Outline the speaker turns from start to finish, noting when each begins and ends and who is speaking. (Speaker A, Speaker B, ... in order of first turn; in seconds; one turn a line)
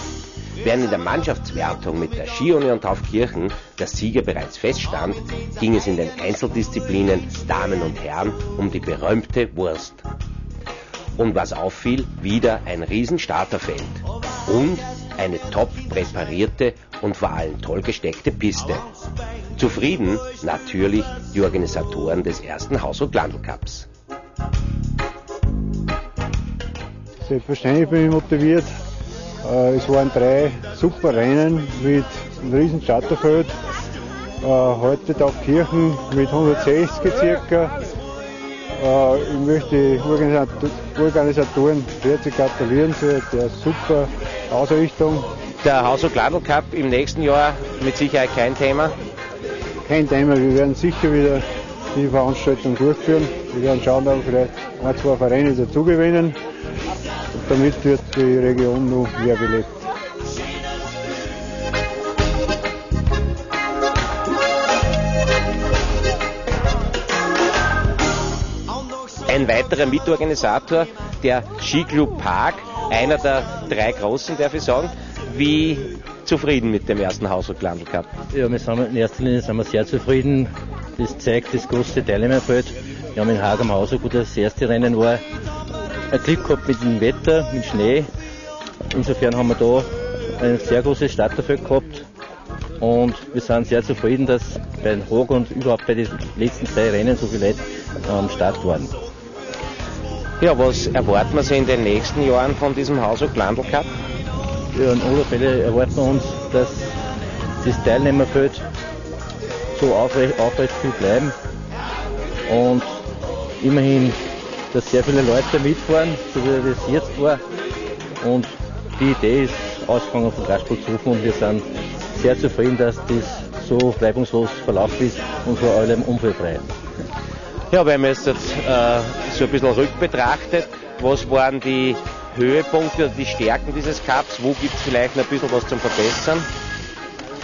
Speaker A: 0.6-10.1
Speaker A: 11.2-18.9
Speaker A: 19.6-23.9
Speaker B: 27.2-28.7
Speaker B: 29.4-33.5
Speaker B: 34.4-37.7
Speaker B: 38.8-45.3
Speaker A: 45.6-48.9
Speaker B: 49.9-51.4
Speaker B: 51.9-56.4
Speaker B: 57.3-59.9
Speaker A: 69.3-78.1
Speaker C: 78.4-80.4
Speaker C: 81.0-85.2
Speaker C: 86.2-88.0
Speaker C: 88.9-89.9
Speaker C: 90.5-92.0
Speaker C: 92.9-97.6
Speaker C: 98.1-98.9
Speaker A: 100.4-103.9
Speaker C: 104.9-106.6
Speaker C: 107.7-108.6
Speaker C: 109.8-111.3
Speaker C: 113.7-114.2
Speaker C: 114.8-117.4
Speaker C: 119.0-121.5
Speaker C: 122.2-126.6
Speaker A: 127.7-136.5